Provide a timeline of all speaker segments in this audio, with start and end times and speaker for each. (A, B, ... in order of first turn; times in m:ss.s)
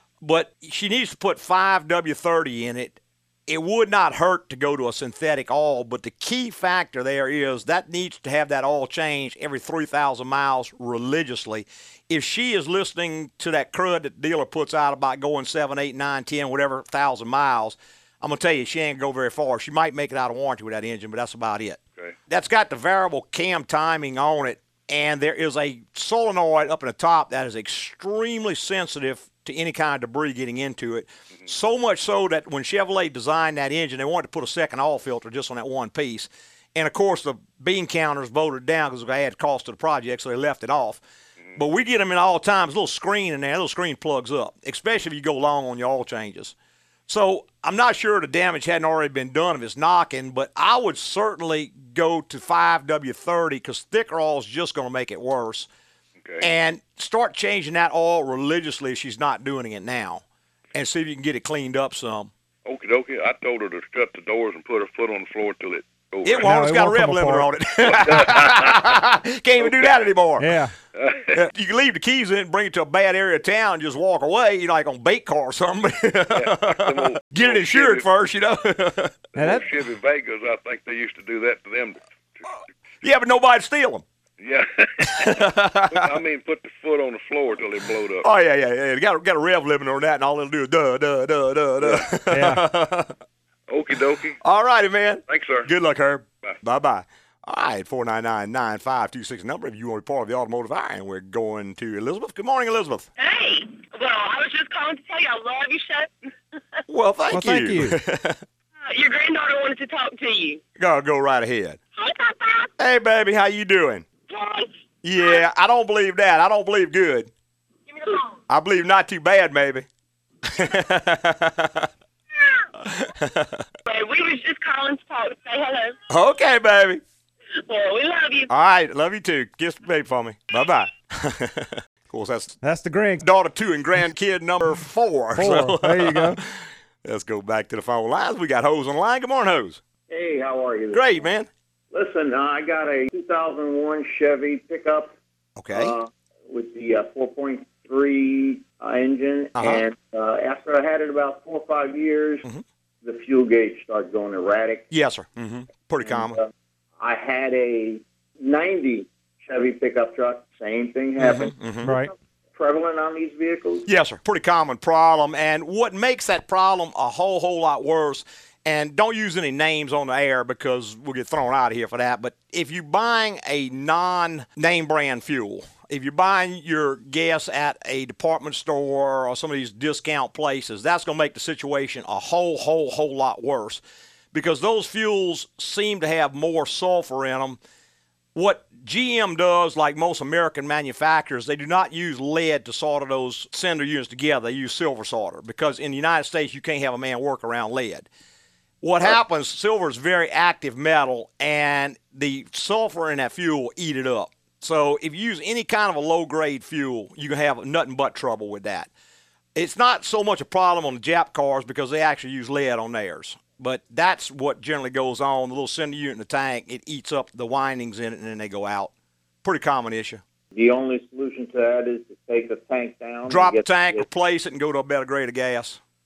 0:00.2-0:41.0 A
0:41.6-0:46.6 A
0:47.1-0:55.7 A
0:56.4-1:00.2 A
1:00.7-1:02.3 A
1:02.6-1:06.5 B
1:06.2-1:10.6 A
1:06.4-1:07.5 C
1:07.8-1:08.9 B
1:09.6-1:09.9 B
1:10.4-1:10.7 C
1:11.0-1:11.4 B
1:11.3-1:19.3 A
1:16.3-1:18.1 B
1:19.4-1:22.5 B
1:19.4-1:19.7 C
1:23.0-1:24.0 A
1:24.4-1:28.3 B
1:25.0-1:26.2 A
1:28.2-1:33.1 A
1:31.8-1:32.1 B
1:32.3-1:32.6 C
1:33.7-1:34.4 B
1:34.4-1:43.1 A
1:35.3-1:35.7 B
1:43.2-1:46.3 D
1:46.9-1:48.4 A
1:47.3-1:48.0 C
1:48.8-1:50.6 D
1:50.8-1:51.8 A
1:52.0-1:52.7 D
1:52.8-1:54.0 A
1:54.3-1:55.4 D
1:55.0-1:57.3 A
1:57.9-1:58.4 D
1:58.5-1:59.9 A
2:00.5-2:01.9 A
2:02.8-2:03.6 A
2:03.9-2:06.0 D
2:06.1-2:07.0 A
2:07.6-2:08.5 D
2:08.5-2:12.6 A
2:12.6-2:13.2 C
2:13.2-2:16.5 A
2:15.4-2:16.4 C
2:17.0-2:19.8 A
2:20.1-2:21.2 E
2:20.9-2:21.5 A
2:21.9-2:25.2 E
2:25.6-2:25.9 A
2:25.7-2:32.4 E
2:29.6-2:29.8 A
2:33.0-2:34.9 E
2:34.9-2:36.4 A
2:36.0-2:36.5 E
2:37.0-2:43.9 E
2:41.2-2:41.9 A
2:41.8-2:42.1 C
2:43.9-3:03.8 A
3:04.3-3:07.6 A
3:08.4-3:18.1 A
3:18.8-3:28.9 A
3:29.6-3:38.9 A
3:39.4-3:40.2 A
3:40.5-3:44.0 E
3:43.3-3:45.8 A